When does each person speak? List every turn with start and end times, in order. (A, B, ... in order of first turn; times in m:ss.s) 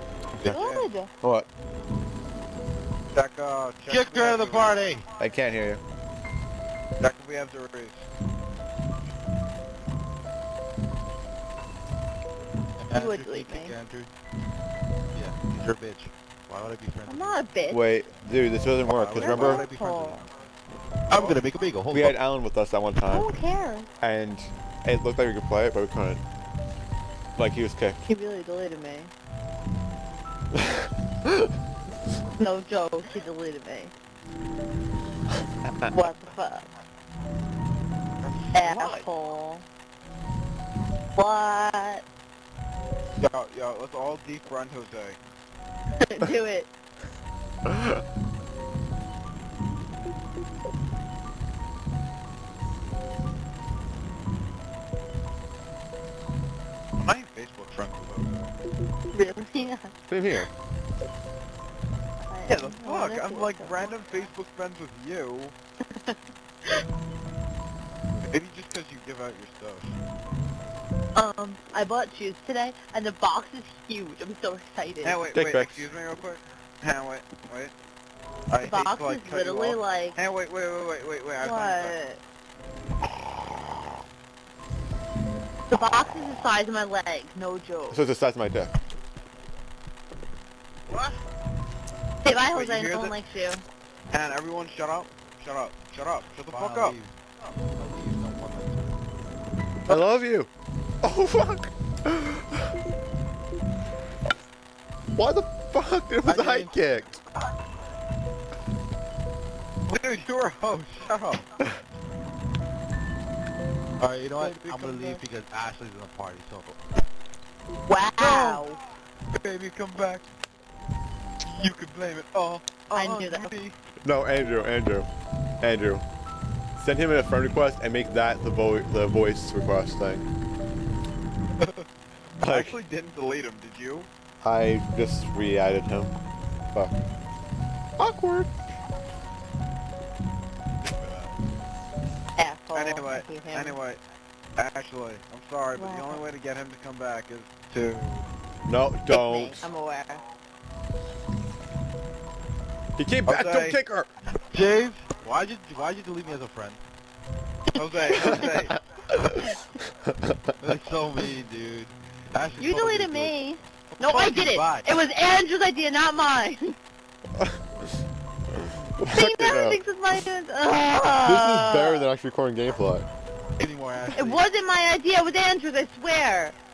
0:00.4-0:01.1 A
0:00.5-0:00.9 B
0:01.2-0:01.5 C
0:03.1-0:04.9 B
0:03.9-0:05.0 D
0:05.2-0:05.8 C
0:07.0-0:08.0 B
0:12.8-0:14.1 D
0:12.9-0:13.7 A
0:15.1-0:17.4 D
0:17.1-0:17.8 A
0:17.7-0:19.6 C
0:18.8-0:20.1 B
0:19.2-0:20.2 A
0:19.2-0:20.2 D
0:21.1-0:22.2 D
0:21.1-0:21.4 B
0:21.9-0:23.3 C
0:23.1-0:23.9 A
0:24.0-0:26.2 C
0:27.3-0:28.0 C
0:28.0-0:29.1 A
0:30.5-0:31.5 C
0:32.4-0:33.9 A
0:35.6-0:35.9 C
0:35.9-0:36.7 A
0:38.2-0:39.1 B
0:38.5-0:39.6 A
0:41.2-0:42.0 A
0:43.2-0:45.2 B
0:46.0-0:46.7 A
0:47.6-0:48.0 C
0:57.0-0:58.5 B
0:59.1-0:59.9 A
1:00.1-1:00.5 C
1:02.3-1:03.9 A
1:02.5-1:05.5 B
1:05.9-1:06.2 A
1:08.3-1:10.0 B
1:11.2-1:15.2 A
1:15.0-1:17.7 B
1:15.3-1:15.9 C
1:18.5-1:22.0 B
1:18.6-1:20.2 A
1:21.4-1:22.2 A
1:25.7-1:28.0 A
1:27.9-1:28.7 C
1:32.2-1:33.6 A
1:32.3-1:33.1 B
1:34.1-1:37.0 B
1:36.4-1:37.1 D
1:37.7-1:38.9 D
1:39.9-1:40.5 C
1:41.0-1:42.7 C
1:45.1-1:47.2 C
1:46.2-1:46.8 D
1:49.9-1:51.4 B
1:54.0-1:56.8 D
1:54.4-1:55.2 B
1:57.9-1:58.8 A
1:58.2-1:58.6 B
1:59.3-2:00.2 B
2:01.5-2:03.7 B
2:02.9-2:03.5 A
2:04.0-2:05.1 C
2:05.6-2:06.0 C
2:06.8-2:10.2 C
2:11.6-2:11.8 B
2:12.4-2:14.1 B
2:12.4-2:12.8 C
2:14.4-2:16.1 C
2:18.0-2:18.5 C
2:20.8-2:21.3 B
2:22.4-2:23.8 A
2:22.7-2:24.0 B
2:24.6-2:28.2 B
2:25.7-2:26.2 A
2:28.6-2:29.7 C
2:29.1-2:30.2 A
2:33.0-2:34.1 C
2:33.3-2:33.8 B
2:34.5-2:36.8 D
2:37.7-2:38.8 B
2:37.8-2:38.5 A
2:38.3-2:40.6 C
2:40.6-2:43.4 D
2:42.6-2:46.8 A
2:43.9-2:45.0 D
2:47.3-2:47.6 C
2:48.5-2:49.8 C
2:49.0-2:52.1 A
2:51.2-2:53.0 C
2:53.6-2:54.4 D
2:54.1-2:56.5 A